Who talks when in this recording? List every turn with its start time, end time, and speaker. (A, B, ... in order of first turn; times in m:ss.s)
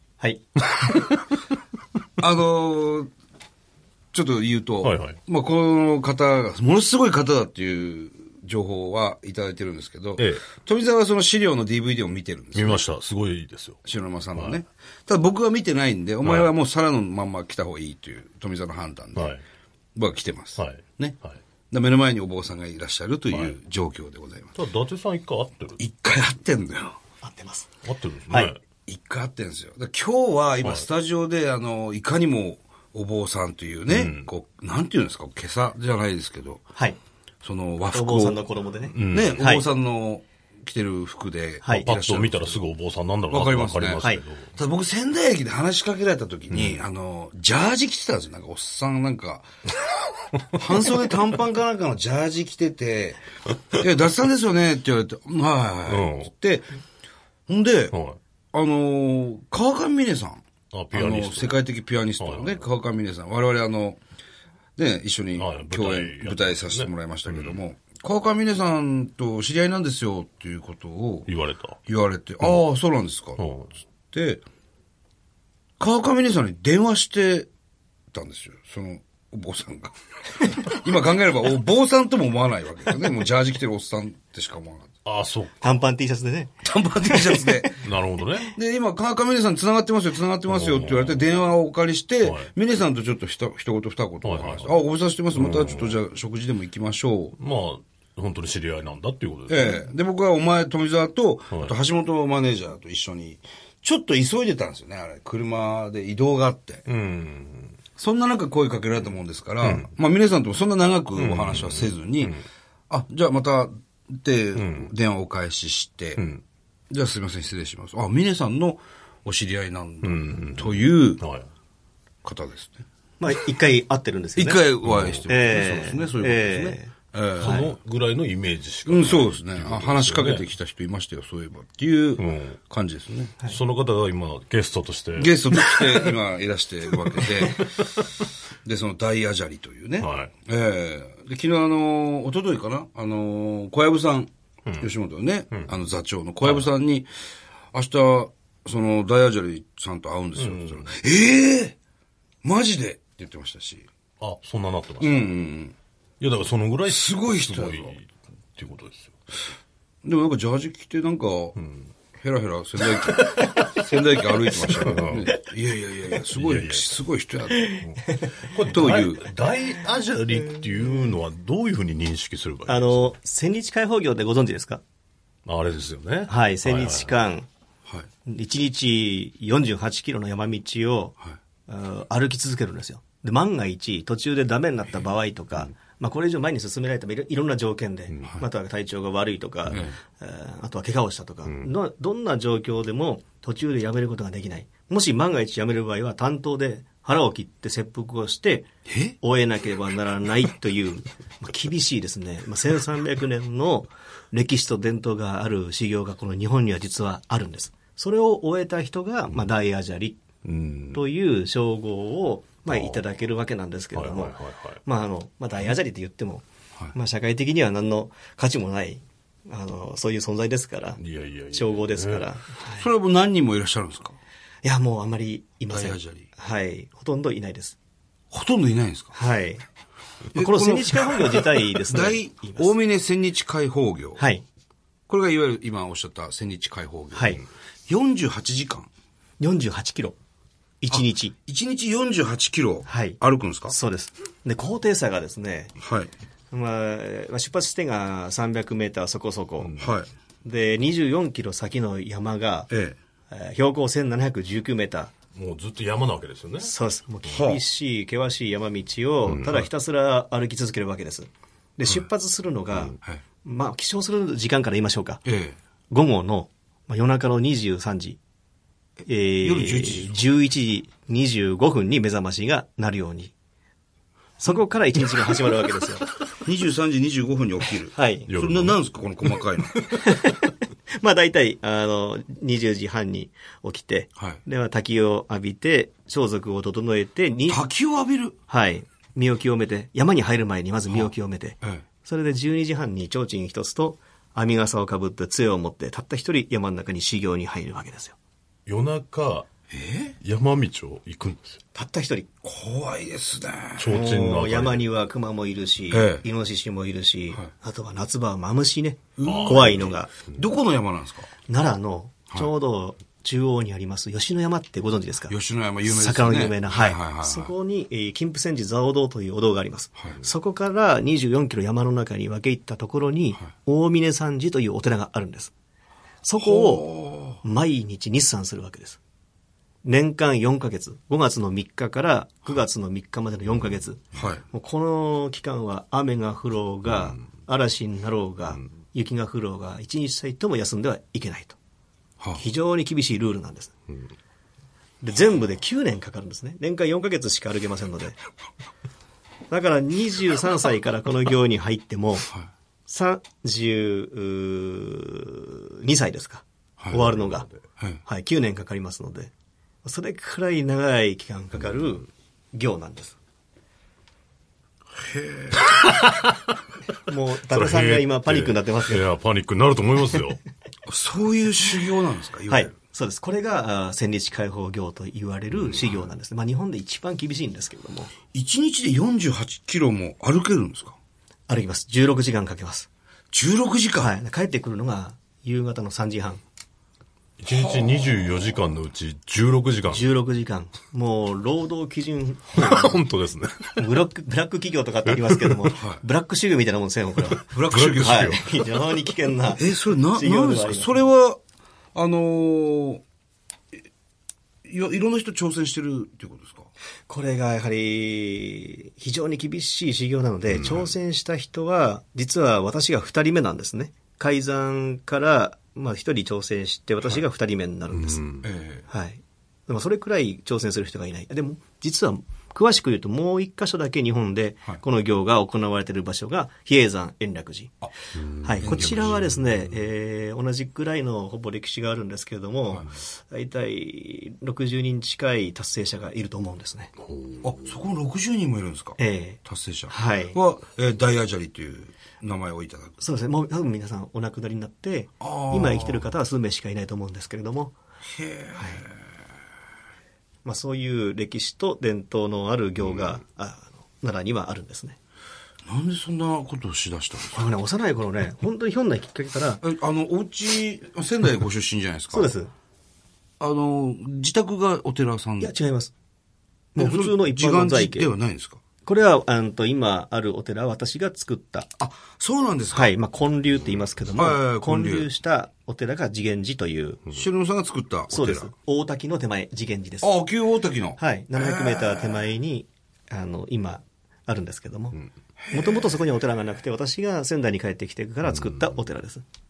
0:00.2-0:00.6 A
0:02.2-0:03.1 B
0:04.1-0:12.8 B
0:04.8-0:05.2 C
0:10.2-0:10.4 C
0:12.5-0:13.8 C
0:13.8-0:19.3 B
0:16.2-0:16.5 C
0:19.2-0:19.4 C
0:19.9-0:21.2 B
0:20.6-0:21.4 C
0:21.7-0:24.6 B
0:23.3-0:23.5 C
0:24.5-0:25.8 C
0:25.8-0:27.0 B
0:27.2-0:27.7 A
0:27.8-0:28.6 C
0:28.8-0:36.6 B
0:33.9-0:34.3 C
0:37.4-0:38.4 B
0:37.9-0:39.6 A
0:38.9-0:39.4 C
0:39.0-0:42.6 B
0:41.6-0:41.9 A
0:41.8-0:44.5 C
0:43.3-0:49.5 B
0:46.5-0:46.8 C
0:50.5-0:56.7 B
0:55.9-0:56.3 C
0:57.5-0:57.9 B
0:57.9-0:58.2 C
0:58.5-1:04.0 B
1:00.7-1:01.6 C
1:02.2-1:02.6 C
1:04.8-1:11.3 B
1:05.4-1:07.6 C
1:11.3-1:11.8 C
1:11.8-1:13.4 B
1:13.4-1:13.7 C
1:14.1-1:14.4 B
1:15.8-1:17.5 B
1:18.1-1:24.9 B
1:25.0-1:25.8 C
1:25.6-1:26.5 A
1:26.6-1:27.8 B
1:27.0-1:27.7 A
1:27.8-1:28.5 C
1:28.5-1:37.4 B
1:30.5-1:31.2 C
1:32.2-1:32.5 C
1:34.2-1:34.7 C
1:35.3-1:36.0 C
1:37.4-1:39.8 C
1:39.5-1:46.8 B
1:46.9-1:47.8 C
1:48.0-1:52.4 B
1:49.6-1:49.9 C
1:51.2-1:52.4 C
1:52.9-1:56.2 B
1:54.6-1:54.9 C
1:56.2-1:56.4 C
1:56.9-2:01.2 B
2:00.0-2:01.5 C
2:02.2-2:02.8 B
2:03.2-2:04.6 A
2:04.4-2:07.6 B
2:04.8-2:05.2 C
2:05.2-2:07.7 A
2:07.4-2:10.4 C
2:08.8-2:13.3 B
2:12.2-2:12.6 C
2:13.4-2:16.2 C
2:15.2-2:17.7 B
2:17.2-2:18.0 C
2:18.6-2:27.1 B
2:20.0-2:20.3 C
2:27.7-2:31.8 B
2:30.4-2:30.9 C
2:32.4-2:33.9 B
2:34.2-2:35.2 C
2:35.0-2:35.7 B
2:36.2-2:39.2 C
2:36.9-2:37.9 B
2:40.0-2:41.6 B
2:42.2-2:47.8 B
2:44.7-2:45.3 C
2:46.3-2:46.8 C
2:47.6-2:48.2 A
2:47.9-2:53.1 C
2:48.6-2:49.3 B
2:52.7-2:54.8 A
2:55.4-2:57.2 C
2:56.3-2:57.5 A
2:58.2-3:01.1 A
3:01.7-3:18.7 A
3:08.1-3:08.4 C
3:18.9-3:19.1 B
3:19.2-3:30.2 A
3:30.4-3:31.0 C
3:30.9-3:41.0 A
3:32.7-3:33.0 C
3:33.9-3:34.8 C
3:41.0-3:42.2 C
3:41.5-3:42.8 A
3:42.7-3:44.2 B
3:44.6-3:47.8 A
3:45.7-3:46.3 B
3:48.3-3:49.2 B
3:49.1-3:49.6 A
3:50.3-3:54.3 B
3:50.3-3:52.7 A
3:54.2-3:54.4 A
3:55.1-3:58.9 B
3:57.1-3:57.4 A
3:59.4-4:00.2 A
4:00.8-4:01.3 A
4:00.9-4:03.7 B
4:02.8-4:05.8 A
4:05.8-4:06.1 B
4:06.5-4:09.8 A
4:09.6-4:09.9 C
4:09.8-4:10.1 B
4:10.4-4:12.7 A
4:12.7-4:13.0 B
4:13.3-4:15.1 A
4:15.3-4:16.7 C
4:16.6-4:25.2 A
4:17.2-4:17.6 B
4:19.2-4:19.7 C
4:25.2-4:25.6 B
4:25.9-4:28.2 A
4:29.0-4:33.3 A
4:29.4-4:30.2 B
4:34.4-4:36.1 A
4:36.3-4:39.9 B
4:37.9-4:38.3 A
4:38.3-4:38.8 C
4:40.0-4:47.6 A
4:47.5-4:48.4 B
4:48.5-4:58.2 A
4:58.6-4:59.5 C
4:59.7-5:00.2 B
5:00.2-5:01.6 C
5:01.7-5:02.3 A
5:02.4-5:03.9 B
5:03.8-5:04.8 C
5:03.8-5:10.1 A
5:05.9-5:06.2 B
5:09.2-5:11.3 B
5:09.2-5:10.0 C
5:11.5-5:25.5 A
5:15.3-5:17.5 B
5:20.0-5:20.2 B
5:26.2-5:29.0 A
5:26.4-5:27.4 B
5:29.8-5:41.6 A
5:34.1-5:34.4 B
5:42.4-5:43.7 A
5:45.0-5:48.1 A
5:49.5-5:52.3 A
5:52.9-5:57.5 A
5:58.0-5:59.3 A
5:59.8-6:03.2 A
6:05.0-6:05.7 B
6:05.7-6:06.4 C
6:07.0-6:09.0 A
6:07.5-6:10.4 C
6:10.8-6:12.7 B
6:12.5-6:18.1 A
6:18.3-6:21.0 B
6:21.5-6:22.9 A
6:23.3-6:24.1 B
6:24.0-6:26.4 A
6:27.4-6:30.0 C
6:27.5-6:28.2 B
6:29.9-6:33.0 A
6:32.5-6:34.0 C
6:33.8-6:40.9 A
6:35.1-6:35.7 C
6:35.7-6:36.0 B
6:37.5-6:38.3 B
6:37.5-6:38.7 C
6:39.6-6:41.4 B
6:41.9-6:43.0 B
6:44.6-6:46.7 B
6:47.1-6:58.2 A
6:57.9-6:58.5 C
6:58.4-6:58.8 B
6:58.9-7:07.8 A
7:08.1-7:09.7 C
7:08.4-7:16.9 A
7:08.6-7:09.2 B
7:17.0-7:17.8 C
7:17.4-7:23.0 B
7:19.0-7:20.4 A
7:23.0-7:27.7 A
7:25.2-7:26.0 B
7:28.1-7:29.0 B
7:28.6-7:28.8 A
7:30.4-7:35.0 A
7:35.7-7:37.5 B
7:37.3-7:39.6 A
7:39.6-7:42.3 B
7:42.1-7:42.5 A
7:43.4-7:45.5 B
7:45.4-7:45.9 A
7:46.7-7:48.1 A
7:46.8-7:48.6 B
7:48.8-7:51.7 A
7:51.8-7:52.9 B
7:52.7-7:57.1 A
7:54.1-7:55.1 B
7:57.1-7:58.5 B
7:58.1-8:00.1 A
8:00.0-8:02.2 B
8:01.0-8:05.0 A
8:05.5-8:05.9 B
8:05.5-8:09.2 A